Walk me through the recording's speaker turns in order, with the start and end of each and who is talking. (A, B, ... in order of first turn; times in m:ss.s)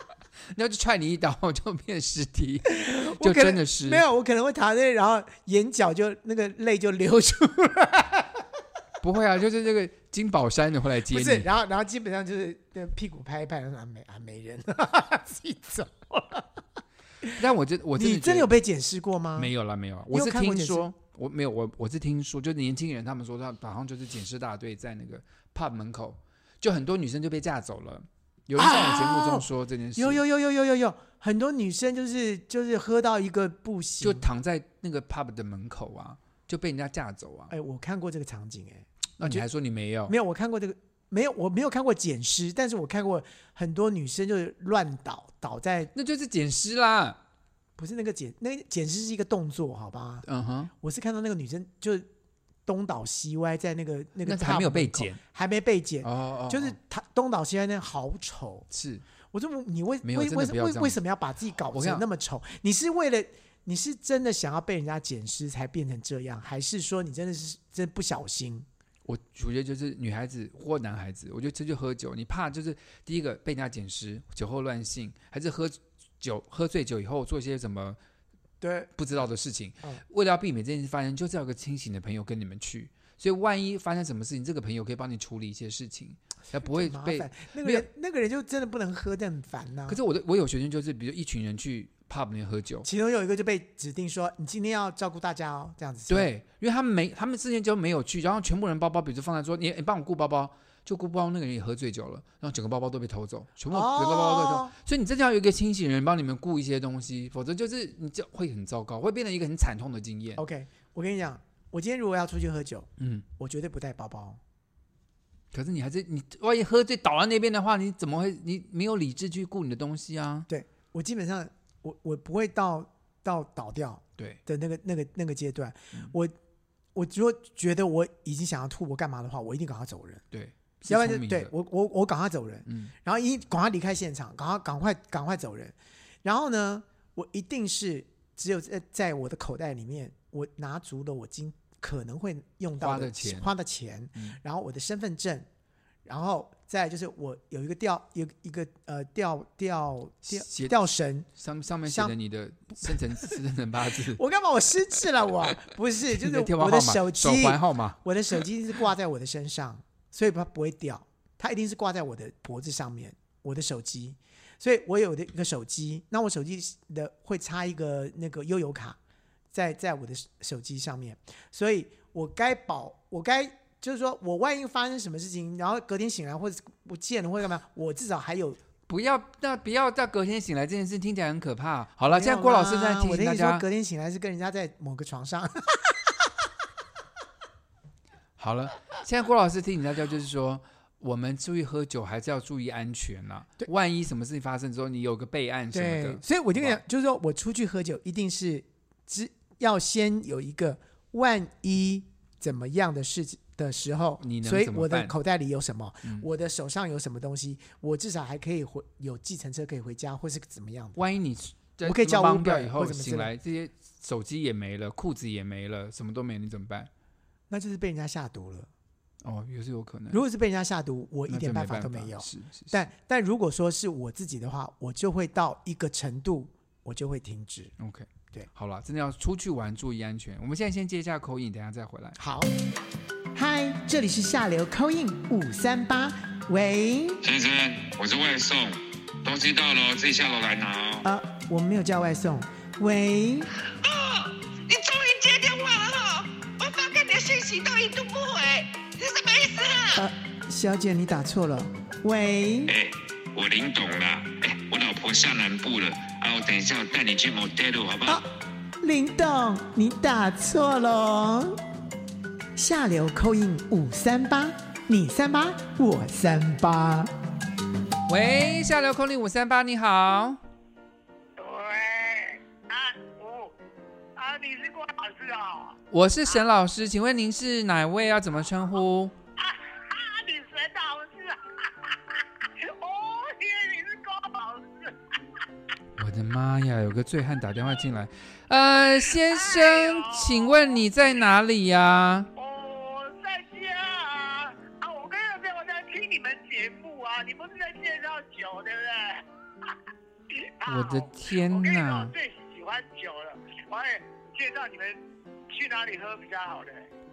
0:00.5-0:04.0 A
0:02.6-0:08.4 B
0:09.0-0:11.5 A
0:11.1-0:16.5 B
0:17.3-0:18.5 A
0:18.0-0:19.5 B
0:19.4-0:30.2 A
0:20.1-0:20.8 B
0:28.6-0:34.2 B
0:34.0-0:37.5 A
0:37.5-0:39.4 B
0:39.2-0:40.1 A
0:40.1-0:45.9 B
0:45.9-0:47.2 A
0:47.8-0:50.2 B
0:50.2-0:50.7 A
0:50.8-0:52.0 B
0:52.6-0:58.7 B
0:54.2-0:55.2 A
0:56.0-0:56.8 A
0:58.7-0:59.0 A
0:59.3-1:08.7 B
1:00.0-1:01.0 A
1:01.7-1:02.0 A
1:09.0-1:18.0 A
1:18.6-1:18.9 B
1:19.0-1:27.8 A
1:26.6-1:30.0 B
1:29.9-1:32.9 A
1:32.8-1:36.3 B
1:36.1-1:50.4 A
1:43.7-1:44.7 B
1:50.4-1:54.4 B
1:53.0-1:53.2 A
1:55.5-2:00.5 A
2:00.5-2:06.3 B
2:06.9-2:10.2 B
2:10.3-2:11.5 A
2:10.9-2:25.5 B
2:12.7-2:12.9 A
2:22.8-2:23.5 A
2:26.0-2:31.3 B
2:30.3-2:30.7 A
2:31.4-2:34.2 A
2:31.8-2:32.1 B
2:34.1-2:49.0 B
2:36.1-2:38.0 A
2:49.5-2:58.6 B
2:58.9-3:03.6 A
3:02.1-3:06.3 B
3:08.4-3:16.8 A
3:15.7-3:31.0 B
3:24.2-3:25.1 A
3:31.0-3:36.9 A
3:31.8-3:33.3 B
3:37.5-3:38.7 B
3:39.2-3:40.2 A
3:40.1-3:47.7 B
3:41.3-3:42.8 A
3:47.8-3:52.2 A
3:52.2-3:52.5 B
3:53.3-3:57.2 B
3:57.2-4:01.0 C
4:01.0-4:03.5 B
4:03.8-4:10.0 D
4:10.0-4:12.7 B
4:12.7-4:18.2 C
4:18.8-4:21.6 B
4:22.6-4:27.1 B
4:28.1-4:30.4 A
4:31.4-4:33.6 E
4:34.2-4:35.8 E
4:35.9-4:39.1 A
4:39.4-4:45.2 E
4:46.0-4:52.3 A
4:49.1-4:50.8 E
4:52.4-4:59.7 E
5:00.3-5:06.9 E
5:00.6-5:02.1 A